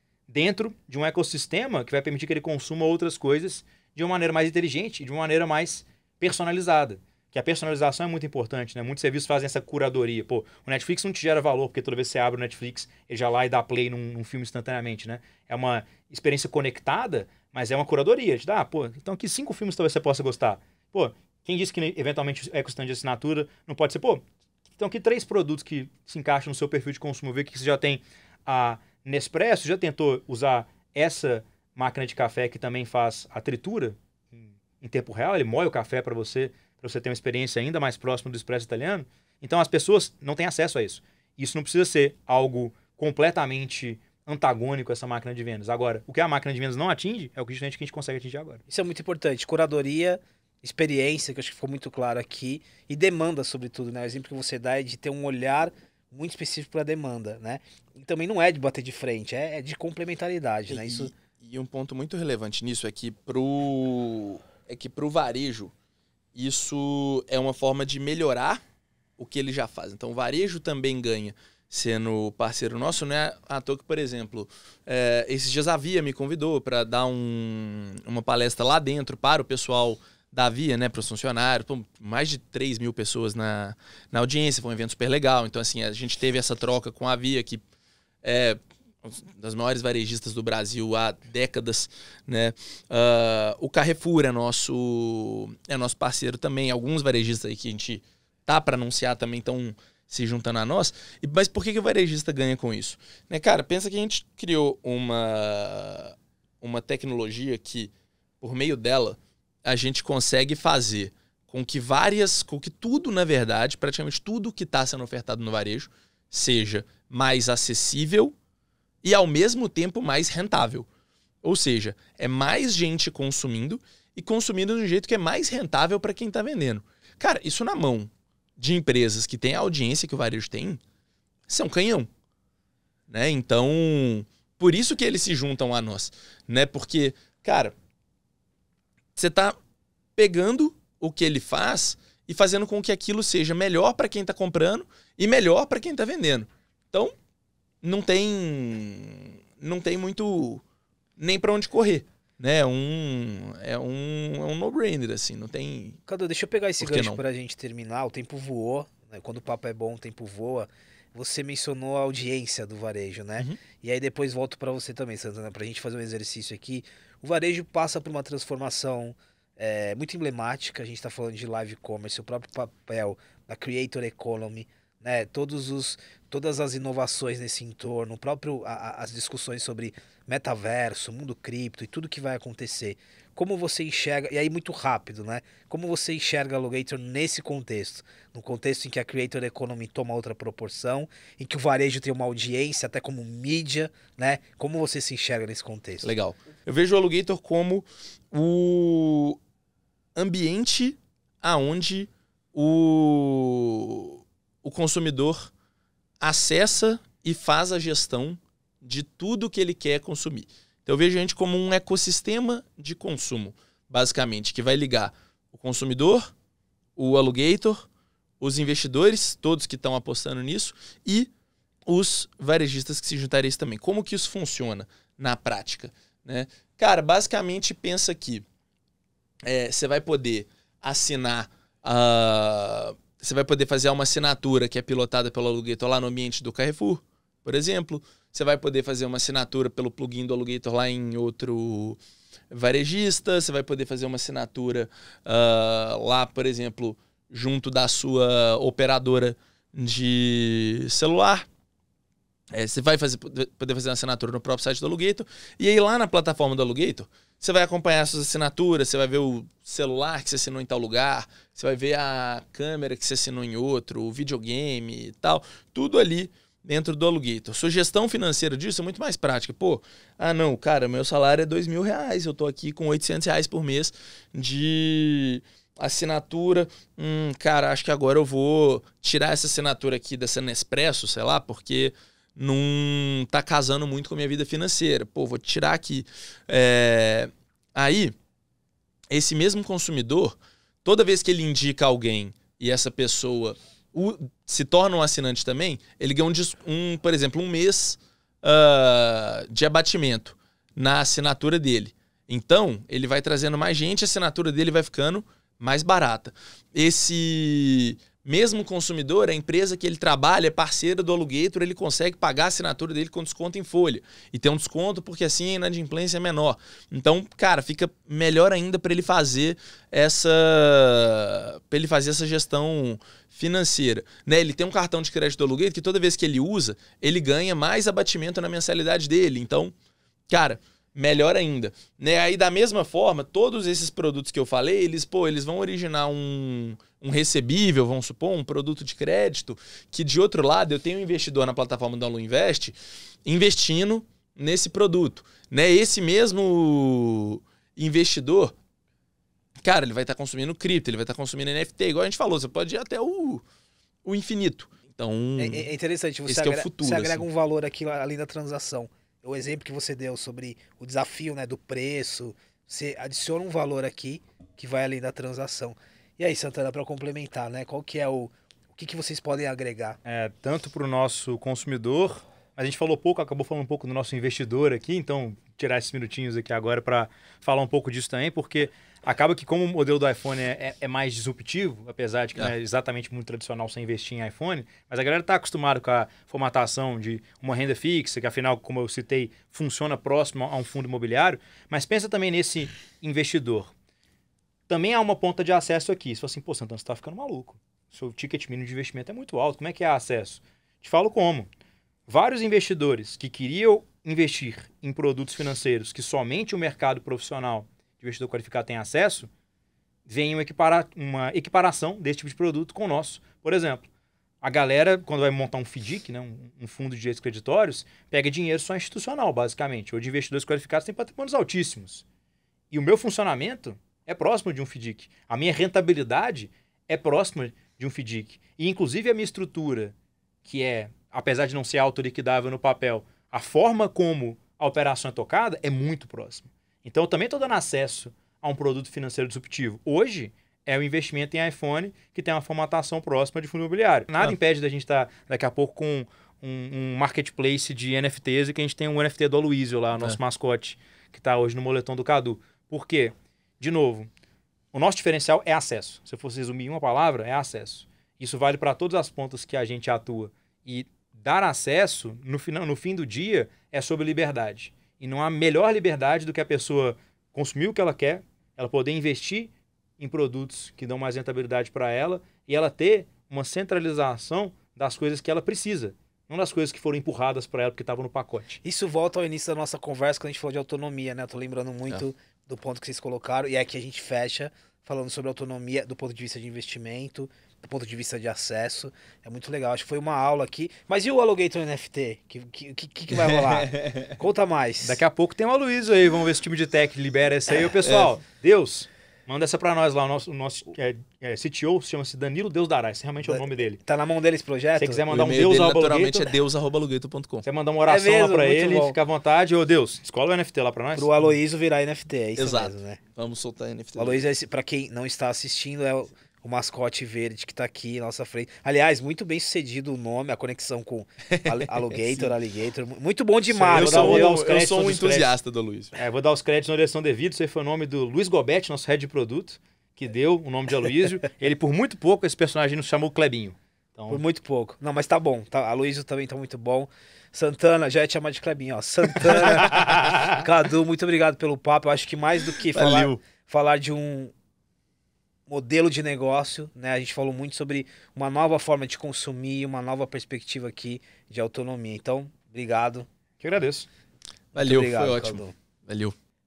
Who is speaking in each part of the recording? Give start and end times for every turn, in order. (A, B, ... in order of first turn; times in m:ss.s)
0:00.3-0:48.6 A
0:48.7-1:01.1 B
1:00.7-1:05.7 C
1:06.3-1:08.6 C
1:09.2-1:27.6 C
1:28.2-1:58.3 C
1:59.0-2:00.9 C
2:01.4-2:10.8 C
2:11.5-2:12.1 C
2:13.1-2:17.7 C
2:19.2-2:19.5 C
2:20.2-2:27.1 C
2:27.8-2:30.6 C
2:31.2-2:36.0 C
2:36.1-3:16.1 B
2:36.8-2:37.2 C
3:16.0-3:19.4 C
3:20.1-3:25.5 C
3:26.2-3:36.3 C
3:37.0-3:37.8 C
3:38.4-3:41.3 C
3:41.9-3:48.4 C
3:49.4-4:02.0 C
4:02.5-4:11.5 C
4:12.5-4:48.1 C
4:49.1-5:29.7 C
5:30.3-5:48.5 C
5:49.6-5:53.4 C
5:54.0-5:55.7 C
5:55.4-6:10.0 B
5:56.2-5:57.2 C
6:10.0-6:33.7 A
6:34.7-6:41.5 A
6:42.1-6:49.3 A
6:50.1-6:53.8 A
6:54.4-7:02.0 A
7:02.7-7:34.1 A
7:34.7-7:58.6 A
7:58.6-8:15.0 B
8:13.1-8:14.1 C
8:14.8-8:23.8 A
8:17.8-8:18.1 C
8:23.2-8:25.0 B
8:24.8-8:26.3 A
8:25.1-8:27.4 C
8:27.4-8:31.1 A
8:27.9-8:29.0 B
8:30.9-8:33.0 B
8:32.4-8:34.2 C
8:34.0-8:44.5 B
8:41.3-8:42.3 C
8:43.6-8:45.3 A
8:43.7-8:45.9 C
8:45.9-8:54.2 A
8:54.1-9:04.3 B
8:59.6-9:00.2 A
9:02.7-9:03.2 C
9:05.5-9:13.1 B
9:13.4-9:13.9 A
9:14.5-9:15.5 B
9:14.5-9:16.1 C